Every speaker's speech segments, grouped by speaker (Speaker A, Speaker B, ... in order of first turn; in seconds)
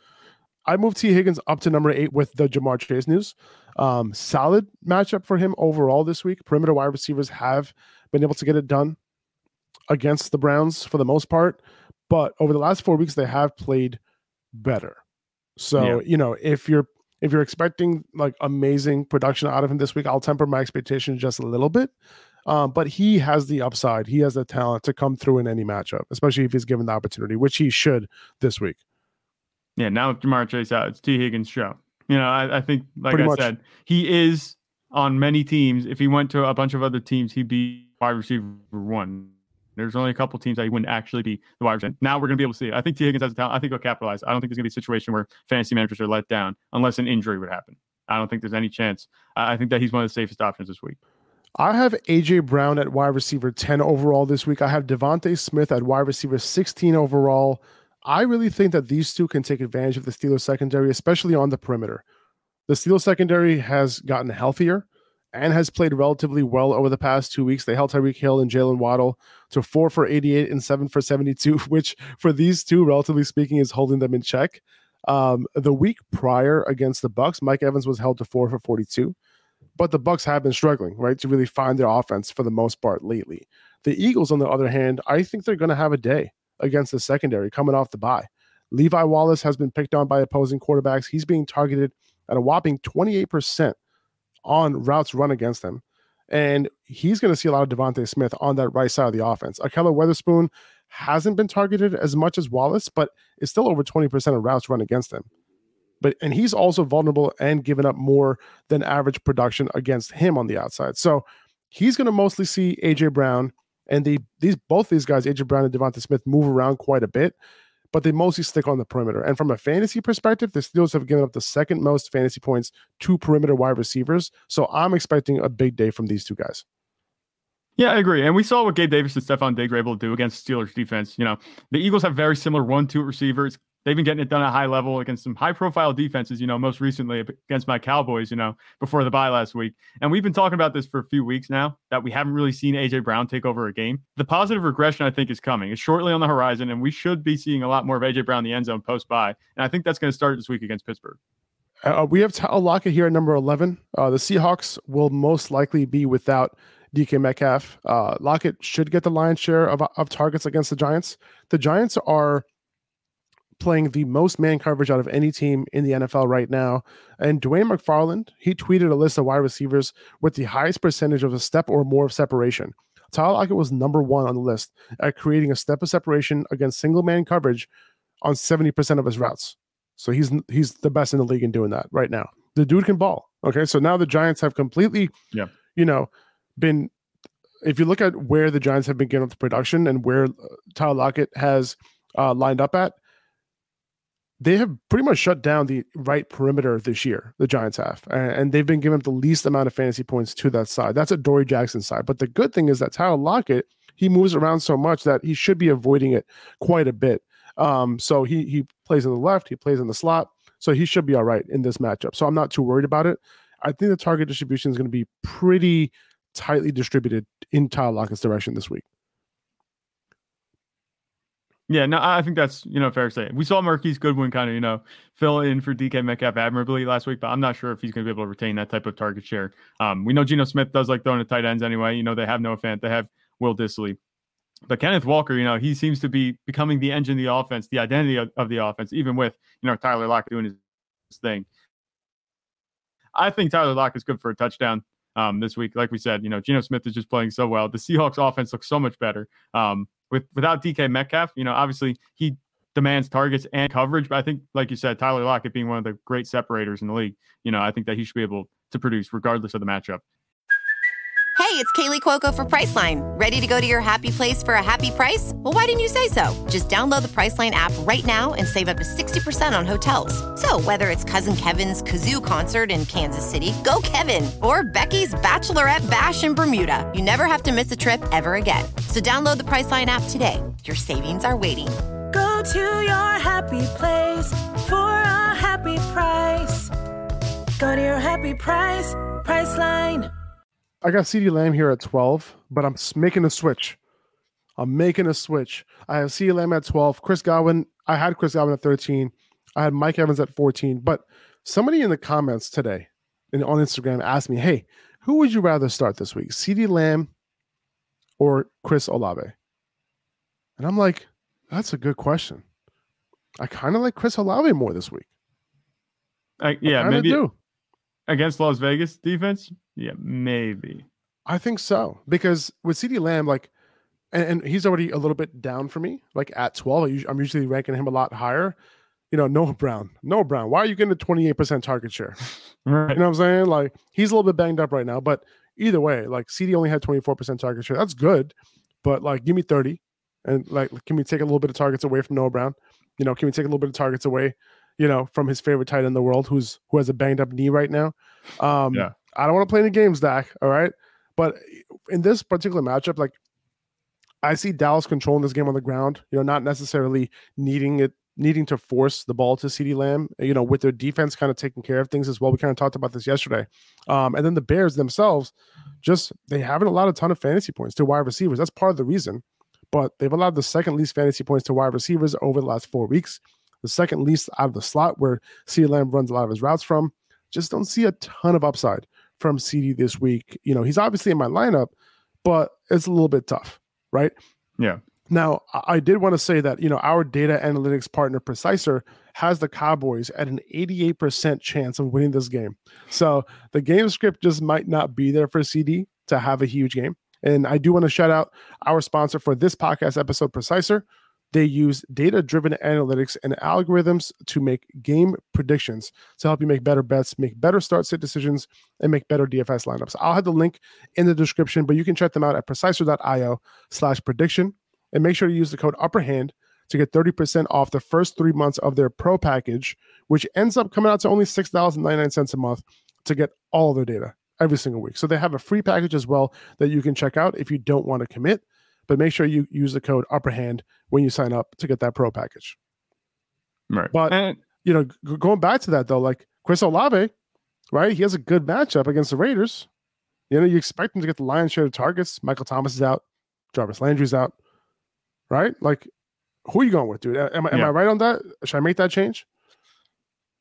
Speaker A: 0.7-9.0, 9.9-14.0, 14.5-15.0, 15.6-21.9, 22.4-28.8, 33.1-33.5, 51.6-62.0, 62.7-79.1, 79.8-93.8, 94.4-105.3, 106.0-117.3, 117.9-126.6, 151.8-162.4, 163.6-177.7, 178.2-185.1, 185.7-186.9, 187.6-192.9, 194.4-218.8, 290.8-293.8, 294.6-307.1, 308.2-309.3, 310.6-312.4, 313.4-315.1, 316.6-317.3, 321.2-323.5, 324.1-328.6, 329.1-332.2, 332.9-353.1, 354.2-381.7, 382.2-384.1, 385.1-432.6, 433.9-437.1, 437.7-439.7, 440.3-444.3, 445.3-445.9, 446.4-449.2
Speaker B: 29.8-51.0, 127.8-151.2, 221.7-234.0, 234.7-240.6, 241.1-241.5, 243.1-260.0, 316.4-317.2, 318.1-320.9, 332.6-333.0, 433.7-434.4
Speaker C: 261.4-281.8
Speaker D: 282.1-286.7, 287.6-290.1